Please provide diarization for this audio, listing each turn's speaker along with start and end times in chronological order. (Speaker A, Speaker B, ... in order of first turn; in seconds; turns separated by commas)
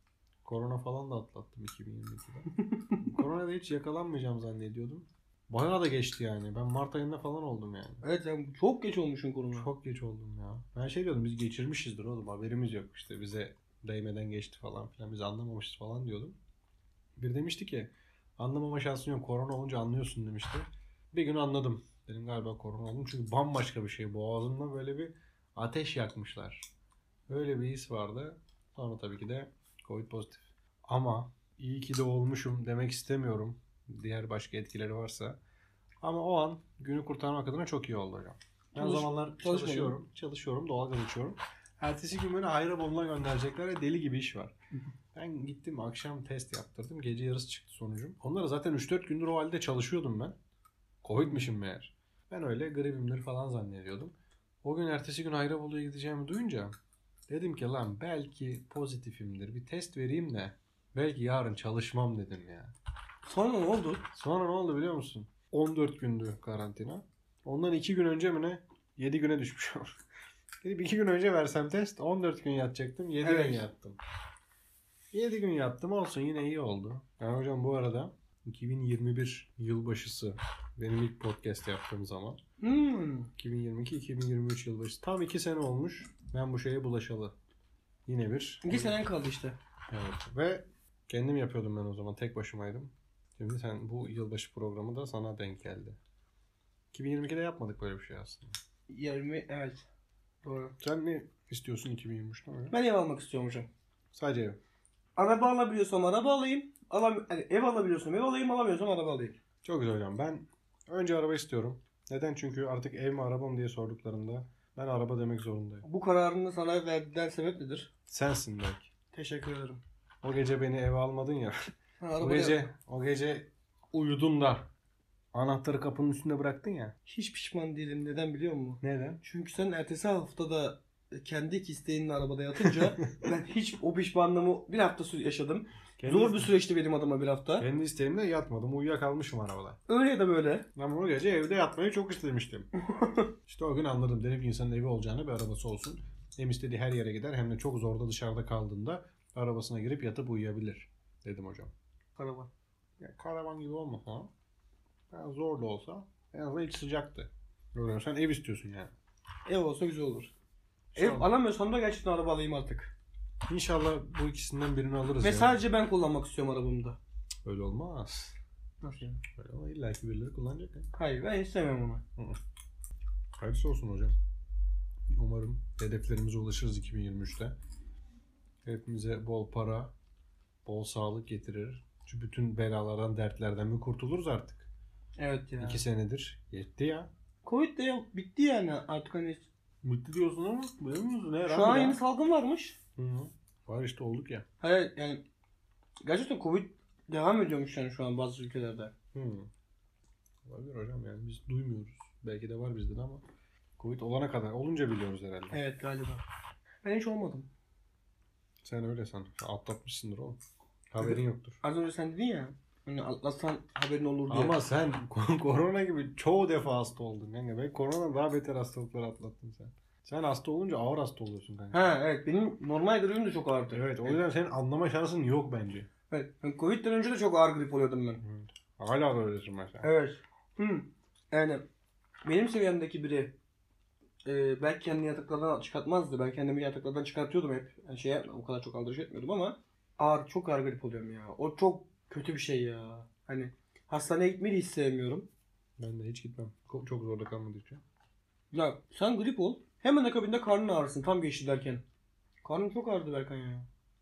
Speaker A: 0.4-2.5, Speaker B: 2.5-3.1, Speaker A: 3.0-8.0, Speaker B: 8.0-9.7, Speaker A: 9.6-16.4, Speaker A: 17.2-26.7, Speaker A: 27.3-35.4, Speaker A: 36.0-44.5, Speaker B: 38.8-40.0, Speaker A: 45.1-50.4, Speaker A: 51.0-56.7, Speaker A: 57.3-62.7, Speaker B: 63.3-64.1, Speaker A: 64.1-69.9, Speaker A: 70.6-74.0, Speaker B: 73.2-73.7, Speaker A: 75.1-82.4, Speaker B: 82.6-83.3, Speaker A: 83.4-87.3, Speaker A: 88.1-89.0, Speaker B: 88.6-89.6, Speaker A: 89.9-96.0, Speaker A: 96.9-98.5, Speaker B: 98.9-99.8, Speaker B: 100.4-100.8, Speaker A: 100.8-102.8, Speaker B: 102.7-103.7, Speaker A: 104.1-104.6, Speaker B: 105.2-109.4, Speaker A: 109.6-115.9, Speaker B: 115.8-117.9, Speaker A: 118.1-118.9, Speaker B: 119.1-119.8, Speaker A: 120.2-124.7, Speaker B: 122.0-122.7, Speaker A: 125.3-127.0, Speaker B: 127.1-137.7, Speaker A: 128.8-129.2, Speaker A: 132.7-132.9, Speaker A: 136.0-136.5, Speaker A: 137.6-139.8, Speaker B: 139.9-140.7, Speaker A: 140.8-142.7, Speaker B: 142.8-143.3, Speaker A: 143.5-151.7, Speaker B: 152.2-152.5, Speaker A: 153.0-154.3, Speaker A: 155.1-158.9, Speaker B: 159.5-160.3, Speaker A: 160.9-161.3, Speaker B: 161.0-162.9, Speaker A: 163.5-165.6, Speaker B: 165.2-167.0, Speaker A: 167.4-168.4, Speaker B: 168.8-169.2, Speaker A: 169.3-170.9, Speaker B: 170.9-172.0, Speaker A: 173.4-174.2, Speaker A: 175.1-177.6, Speaker A: 178.6-179.9, Speaker A: 180.7-184.7, Speaker B: 185.2-185.8, Speaker A: 185.6-187.1, Speaker B: 187.4-189.5, Speaker A: 189.8-192.0, Speaker B: 191.5-192.8, Speaker A: 193.0-194.5, Speaker B: 194.6-195.2, Speaker B: 196.0-198.9, Speaker A: 199.1-199.5, Speaker A: 200.5-203.2, Speaker A: 203.8-205.6, Speaker B: 205.5-206.2, Speaker B: 206.8-207.5, Speaker A: 208.6-210.4, Speaker A: 210.9-211.6, Speaker B: 211.0-214.6, Speaker A: 214.3-221.9, Speaker B: 221.7-224.2, Speaker A: 223.7-225.9, Speaker B: 226.1-228.2, Speaker A: 228.2-229.9, Speaker B: 229.8-231.7, Speaker B: 232.2-233.4, Speaker B: 234.3-245.3, Speaker A: 245.8-247.8, Speaker B: 248.5-251.8, Speaker B: 252.4-253.7